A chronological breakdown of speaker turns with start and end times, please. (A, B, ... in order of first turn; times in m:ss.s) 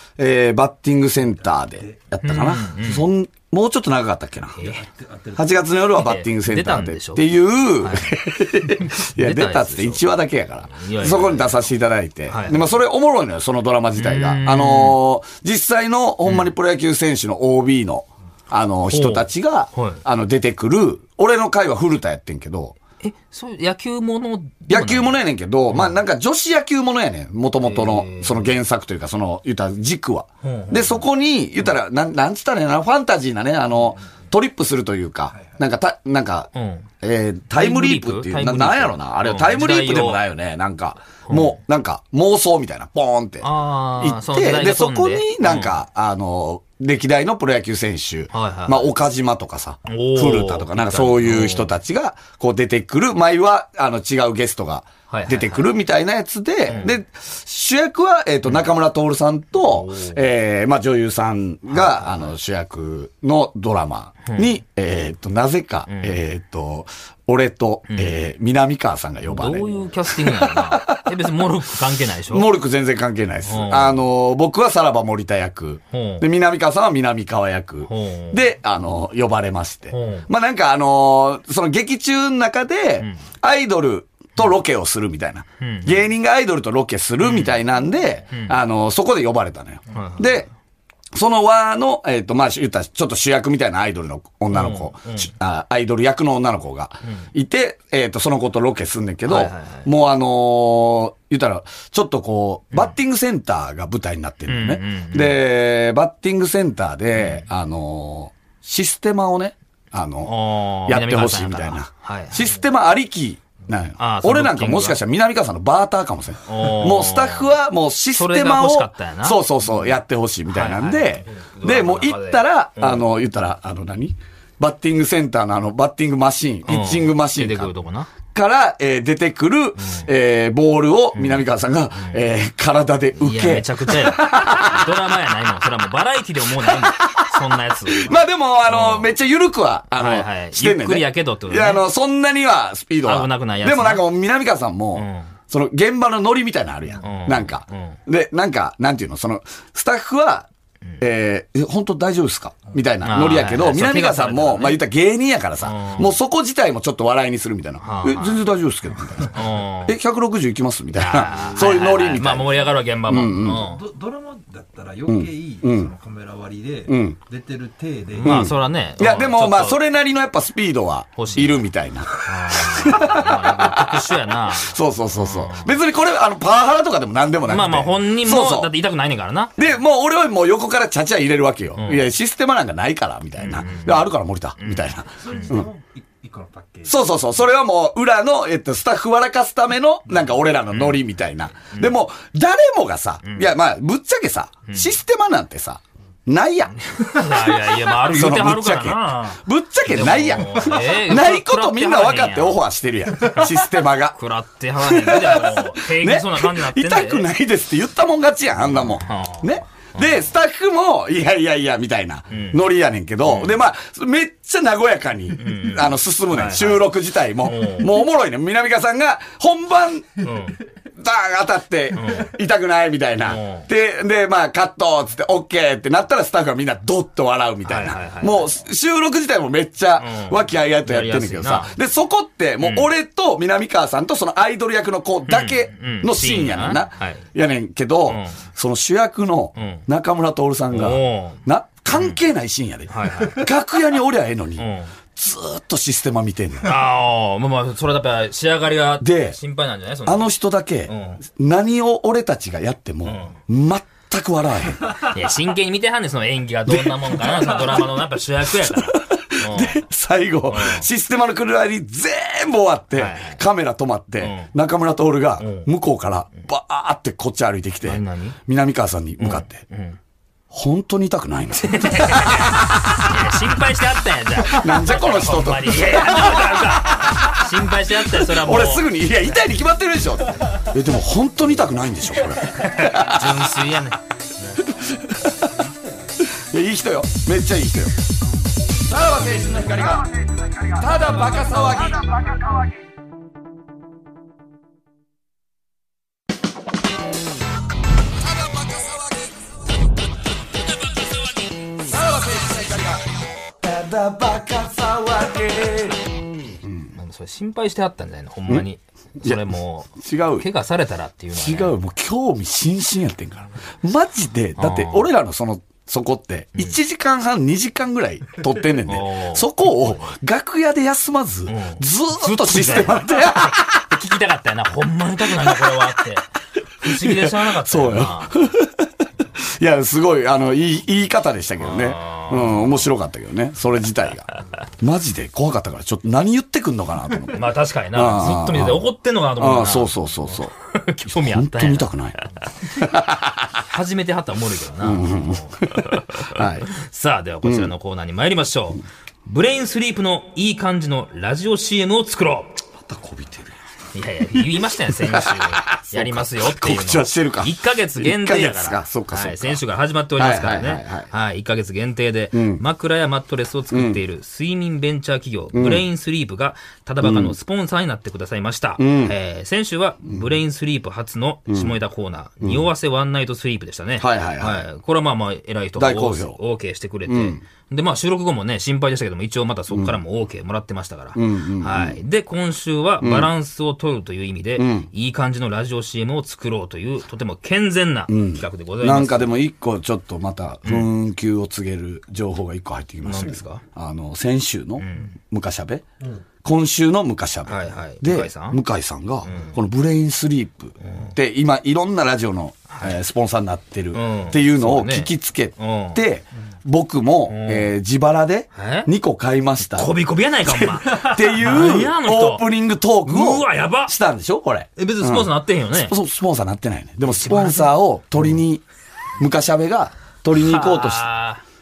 0:00.2-0:04.6 A
0:01.3-0:02.0 B
0:02.2-0:03.1 C
0:04.6-0:04.8 C
0:04.6-0:05.7 B
0:05.4-0:22.8 A
0:06.0-0:10.0 C
0:10.7-0:11.7 C
0:12.3-0:12.7 C
0:14.0-0:15.0 C
0:16.2-0:16.5 C
0:18.9-0:20.0 C
0:23.0-0:25.2 C
0:24.7-0:36.5 A
0:25.7-0:26.0 C
0:27.6-0:28.5 C
0:30.4-0:31.0 C
0:35.3-0:35.6 B
0:36.6-0:36.9 C
0:37.0-1:11.0 A
0:37.5-0:40.2 C
0:41.3-0:41.6 C
0:43.4-0:45.8 C
0:48.3-0:48.9 C
0:49.9-0:51.7 C
0:55.1-0:55.7 C
0:56.7-0:57.0 C
0:59.6-1:00.2 C
1:01.7-1:02.3 C
1:04.3-1:04.6 C
1:05.9-1:06.2 C
1:07.9-1:08.2 C
1:09.3-1:12.5 C
1:12.3-1:30.5 A
1:13.5-1:14.0 C
1:15.9-1:16.3 C
1:17.9-1:18.4 C
1:19.9-1:20.3 C
1:25.6-1:26.0 C
1:27.2-1:27.6 C
1:28.3-1:28.6 C
1:29.9-1:30.4 C
1:31.1-2:07.7 A
1:34.5-1:35.3 C
1:39.3-1:39.9 C
1:44.5-1:45.4 C
1:47.2-1:47.5 C
1:50.2-1:52.5 C
1:54.0-1:55.0 C
1:56.5-1:57.5 C
1:58.2-2:00.0 C
2:00.5-2:03.1 C
2:06.7-2:08.1 C
2:08.3-2:15.1 A
2:09.8-2:10.1 C
2:11.2-2:12.2 C
2:13.2-2:19.1 C
2:16.6-2:30.5 A
2:19.9-2:21.8 C
2:23.0-2:24.0 C
2:25.0-2:25.3 C
2:27.0-2:28.0 C
2:31.0-2:43.7 A
2:33.0-2:34.8 C
2:35.6-2:36.2 C
2:37.8-2:38.4 C
2:39.3-2:40.0 C
2:40.9-2:43.8 C
2:41.4-2:41.8 B
2:43.4-2:48.5 B
2:45.1-2:45.9 A
2:46.9-2:47.2 A
2:48.1-2:49.8 C
2:48.2-2:58.7 A
2:51.2-2:51.6 C
2:52.2-2:55.8 C
2:57.5-2:59.6 C
2:59.6-3:05.7 A
3:01.8-3:02.0 C
3:03.4-3:05.6 C
3:05.2-3:07.1 B
3:06.8-3:16.8 A
3:10.7-3:11.0 C
3:11.7-3:12.0 C
3:13.2-3:13.5 C
3:14.7-3:15.0 C
3:16.8-3:22.6 C
3:17.3-3:24.2 A
3:23.2-3:23.6 C
3:24.2-3:27.3 C
3:24.8-3:40.3 A
3:28.8-3:30.2 C
3:32.3-3:32.6 C
3:33.2-3:33.6 C
3:35.4-3:38.0 C
3:40.2-3:40.6 C
3:41.0-4:06.8 A
3:41.9-3:42.3 C
3:43.2-3:43.7 C
3:47.6-3:48.5 C
3:50.0-3:51.7 C
3:52.6-3:52.9 C
3:55.3-3:57.2 C
3:58.1-3:58.4 C
3:59.6-3:59.9 C
4:00.7-4:02.2 C
4:02.9-4:03.5 C
4:04.6-4:04.9 C
4:06.6-4:10.3 C
4:09.0-4:09.4 A
4:10.0-4:15.0 A
4:10.9-4:11.2 C
4:13.0-4:13.4 C
4:15.0-4:19.8 C
4:16.7-4:17.9 A
4:18.6-4:29.6 A
4:20.5-4:20.9 C
4:22.9-4:23.4 C
4:24.2-4:24.5 C
4:25.4-4:25.7 C
4:27.8-4:28.4 C
4:29.2-4:30.0 C
4:30.5-4:33.2 A
4:31.6-4:38.9 C
4:34.4-4:37.6 A
4:38.1-4:43.5 A
4:42.6-4:44.0 C
4:44.6-4:45.3 A
4:46.3-4:47.9 A
4:48.8-4:52.4 A
4:58.3-4:59.3 A
5:01.8-5:03.1 A
5:03.6-5:06.9 A
5:07.0-5:11.8 C
5:09.2-5:09.5 A
5:10.0-5:10.5 A
5:11.3-5:23.8 A
5:14.6-5:15.1 C
5:18.9-5:20.1 C
5:21.5-5:26.3 C
5:25.3-5:25.8 A
5:26.8-5:28.5 C
5:26.8-5:34.3 A
5:31.6-5:32.8 C
5:34.8-5:38.9 A
5:37.3-5:41.9 C
5:39.4-5:40.5 A
5:41.1-5:43.6 A
5:43.6-5:52.6 C
5:44.8-5:46.7 A
5:47.4-5:47.7 A
5:52.8-5:53.5 A
5:53.9-6:29.4 C
5:54.4-5:59.6 A
6:00.2-6:01.1 A
6:02.3-6:02.6 A
6:03.7-6:04.0 A
6:05.5-6:05.8 A
6:07.0-6:07.4 A
6:08.8-6:09.2 A
6:11.5-6:11.8 A
6:12.4-6:12.7 A
6:14.0-6:14.7 A
6:15.8-6:16.4 A
6:17.1-6:17.4 A
6:19.7-6:20.0 A
6:21.2-6:22.0 A
6:23.0-6:23.3 A
6:24.6-6:24.9 A
6:28.1-6:35.8 A
6:30.6-6:30.9 C
6:33.0-6:33.6 C
6:34.8-6:35.2 C
6:36.4-6:49.9 A
6:37.5-6:38.6 C
6:39.2-6:39.6 C
6:40.8-6:41.2 C
6:42.7-6:43.0 C
6:43.9-6:46.0 C
6:47.3-6:47.7 C
6:48.6-6:48.9 C
6:49.7-6:52.5 C
6:50.4-6:58.6 A
6:53.1-6:53.9 C
6:54.8-6:56.0 C
6:57.1-6:58.4 C
6:59.2-7:01.1 A
7:00.3-7:01.4 C